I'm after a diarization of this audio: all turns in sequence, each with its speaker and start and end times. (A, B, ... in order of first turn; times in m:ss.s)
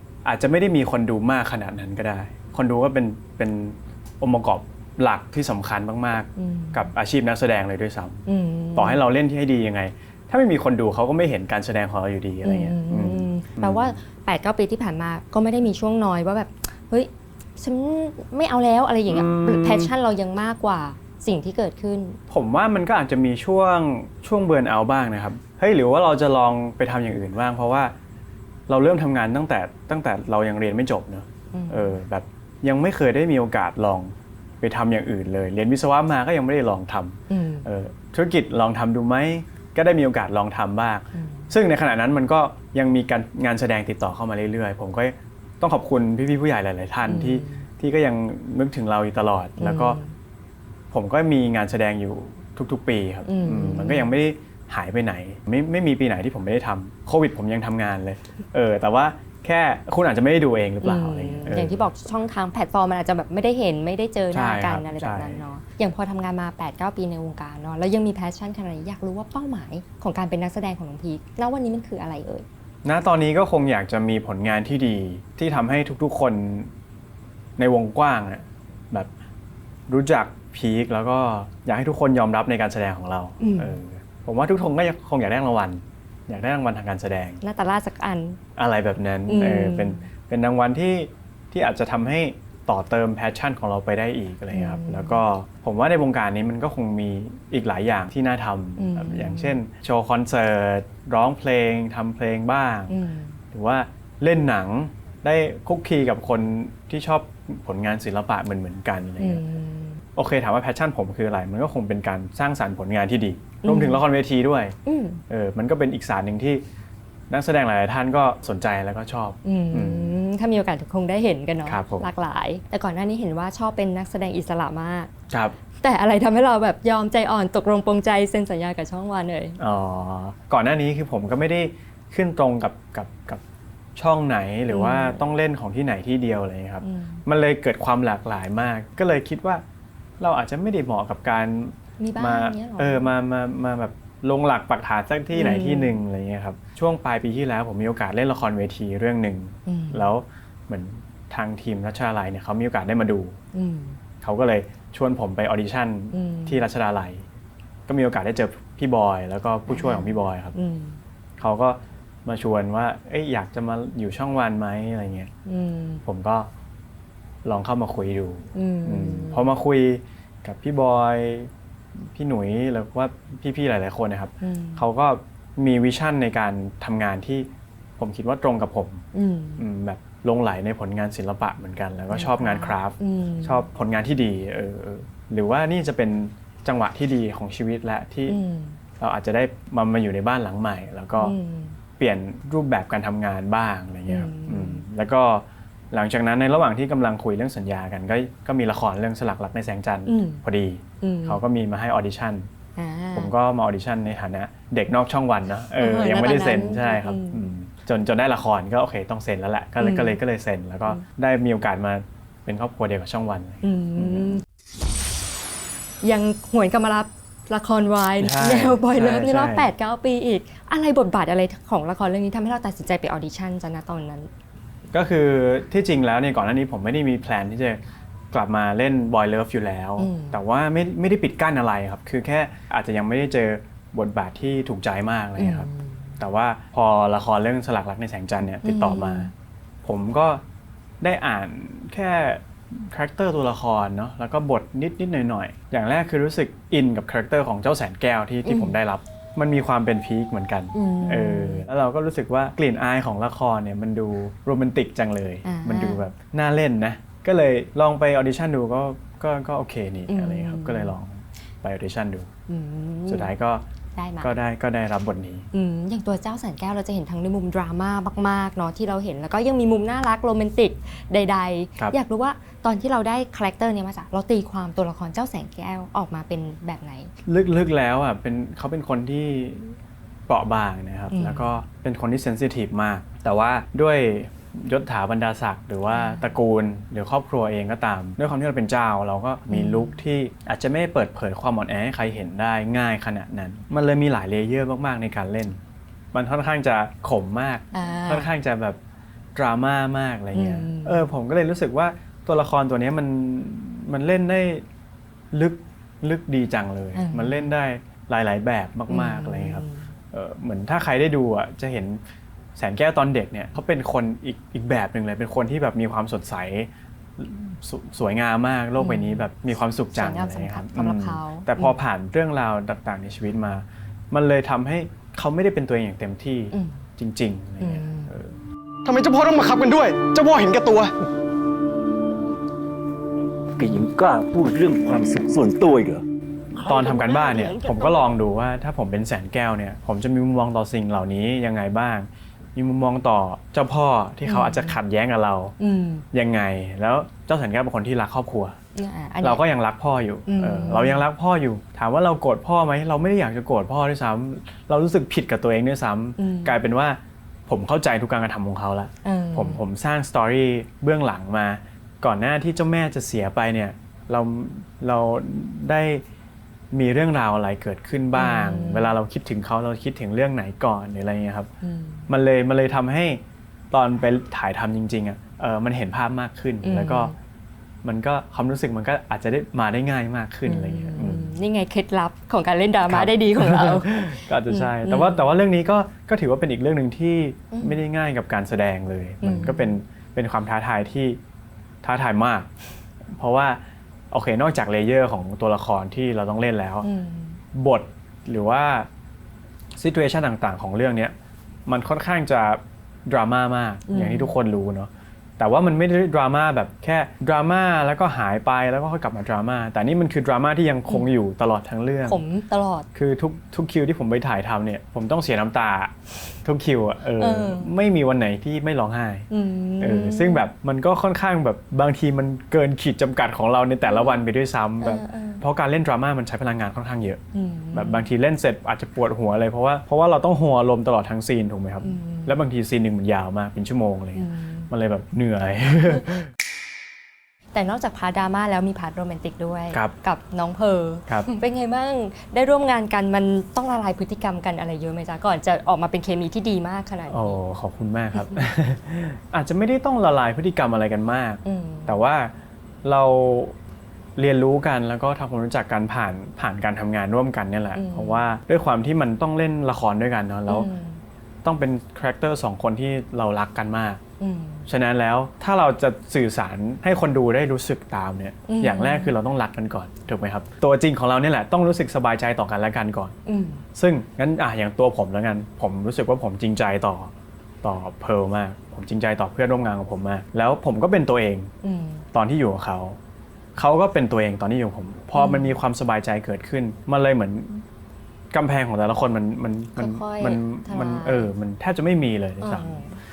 0:00.2-0:14.0 A
0:06.4-0:06.9 B
0:08.3-0:09.0 B
0:12.4-0:22.2 B
0:19.1-0:19.9 A
0:22.3-0:27.9 A
0:28.7-0:50.0 A
0:31.5-0:32.0 B
0:37.3-0:37.7 B
0:41.1-0:41.5 B
0:47.1-0:47.6 B
0:49.6-0:50.1 B
0:50.9-1:01.8 A
0:53.2-0:54.1 B
1:00.8-1:12.5 B
1:04.3-1:05.4 A
1:12.8-1:16.7 A
1:17.6-1:19.1 A
1:19.9-1:27.4 A
1:23.4-1:23.8 B
1:27.4-1:28.4 B
1:28.6-1:43.0 A
1:29.3-1:30.0 B
1:34.5-1:35.2 B
1:38.8-1:39.6 B
1:42.9-1:43.4 B
1:43.5-1:49.4 A
1:49.2-1:50.0 B
1:50.2-1:54.8 A
1:53.6-1:54.0 B
1:54.8-1:55.2 B
1:55.3-1:56.6 A
1:57.3-2:00.2 A
1:59.4-2:05.1 B
2:01.7-2:02.1 A
2:05.3-2:05.6 A
2:05.8-2:09.6 B
2:09.6-2:13.4 A
2:14.0-2:19.6 A
2:14.7-2:15.2 B
2:16.8-2:17.2 B
2:20.2-2:33.4 A
2:22.0-2:23.1 B
2:25.3-2:26.0 B
2:29.7-2:30.1 B
2:33.5-2:34.0 B
2:34.2-2:37.3 A
2:36.1-2:36.6 B
2:37.9-2:40.6 A
2:39.7-2:41.0 B
2:41.4-2:45.3 A
2:45.5-2:46.0 B
2:46.0-2:46.5 A
2:47.4-2:51.5 A
2:48.5-2:49.5 B
2:52.1-2:59.1 A
2:54.4-2:54.8 B
2:59.1-2:59.6 B
2:59.6-3:08.4 A
3:02.1-3:03.7 B
3:08.3-3:08.8 B
3:09.0-3:11.4 A
3:11.2-3:11.8 B
3:12.0-3:22.5 A
3:14.1-3:14.8 B
3:20.1-3:20.4 B
3:21.0-3:21.4 B
3:22.8-3:23.3 B
3:23.1-3:34.4 A
3:25.8-3:27.4 B
3:29.8-3:30.2 B
3:33.6-3:34.4 B
3:36.0-3:44.3 B
3:38.2-3:39.7 A
3:44.9-3:47.8 A
3:48.3-3:55.7 A
3:50.0-3:50.4 B
3:55.4-3:56.2 B
3:56.2-3:59.3 A
3:58.6-3:59.3 B
3:59.8-4:00.4 A
4:01.0-4:22.3 A
4:08.4-4:08.8 B
4:10.7-4:11.7 B
4:15.4-4:16.0 B
4:20.1-4:21.0 B
4:22.5-4:23.3 B
4:23.1-4:23.6 A
4:24.0-4:24.3 B
4:24.2-4:25.5 A
4:25.5-4:37.1 B
4:37.3-4:39.8 A
4:40.3-4:55.6 A
4:41.1-4:41.5 B
4:45.9-4:46.3 B
4:49.5-4:50.0 B
4:56.1-4:58.8 A
4:57.7-4:58.3 B
4:59.4-5:04.6 A
5:00.3-5:01.1 B
5:05.3-5:12.0 A
5:07.0-5:07.5 B
5:08.9-5:09.9 B
5:12.6-5:28.4 A
5:18.8-5:19.2 B
5:19.9-5:21.8 B
5:26.5-5:26.8 B
5:27.6-5:28.1 B
5:28.8-5:31.0 C
5:33.6-5:36.0 D
5:36.6-5:45.6 A
5:36.8-5:38.0 B
5:44.2-5:44.8 B
5:45.6-5:46.0 B
5:46.1-5:48.6 A
5:48.8-5:49.4 B
5:49.2-6:06.0 A
5:50.3-5:51.0 B
5:56.2-5:56.6 B
5:59.0-5:59.6 B
6:06.7-6:11.5 A
6:08.2-6:08.9 B
6:11.6-6:12.1 B
6:12.1-6:17.1 A
6:16.6-6:17.1 B
6:17.8-6:21.4 A
6:20.4-6:25.3 B
6:22.9-6:31.2 A
6:27.5-6:27.8 B
6:29.2-6:29.8 B
6:31.8-6:32.5 A
6:33.1-6:36.9 A
6:36.8-6:37.4 B
6:37.5-6:38.9 A
6:39.8-6:41.1 A
6:41.7-6:52.2 A
6:43.9-6:44.3 B
6:52.1-6:52.9 B
6:52.9-6:59.3 A
6:57.2-6:57.7 B
6:59.3-7:00.5 B
6:59.8-7:07.2 A
7:03.8-7:04.2 B
7:04.8-7:05.4 B
7:07.3-7:08.0 B
7:07.7-7:16.3 A
7:11.8-7:12.4 B
7:14.2-7:14.7 B
7:17.5-7:27.4 B
7:27.1-7:32.3 A
7:28.1-7:28.4 B
7:31.4-7:32.0 B
7:32.8-7:33.6 A
7:34.2-7:40.7 A
7:37.8-7:38.2 B
7:40.5-7:41.0 B
7:41.4-7:44.0 A
7:44.2-7:44.7 B
7:44.7-7:53.2 A
7:48.5-7:49.1 B
7:53.3-7:53.6 B
7:53.8-7:57.1 A
7:57.6-8:01.5 A
8:01.6-8:02.0 B
8:02.1-8:03.0 A
8:03.6-8:07.6 A
8:05.1-8:05.6 B
8:08.3-8:12.8 A
8:09.8-8:11.3 B
8:12.4-8:13.0 B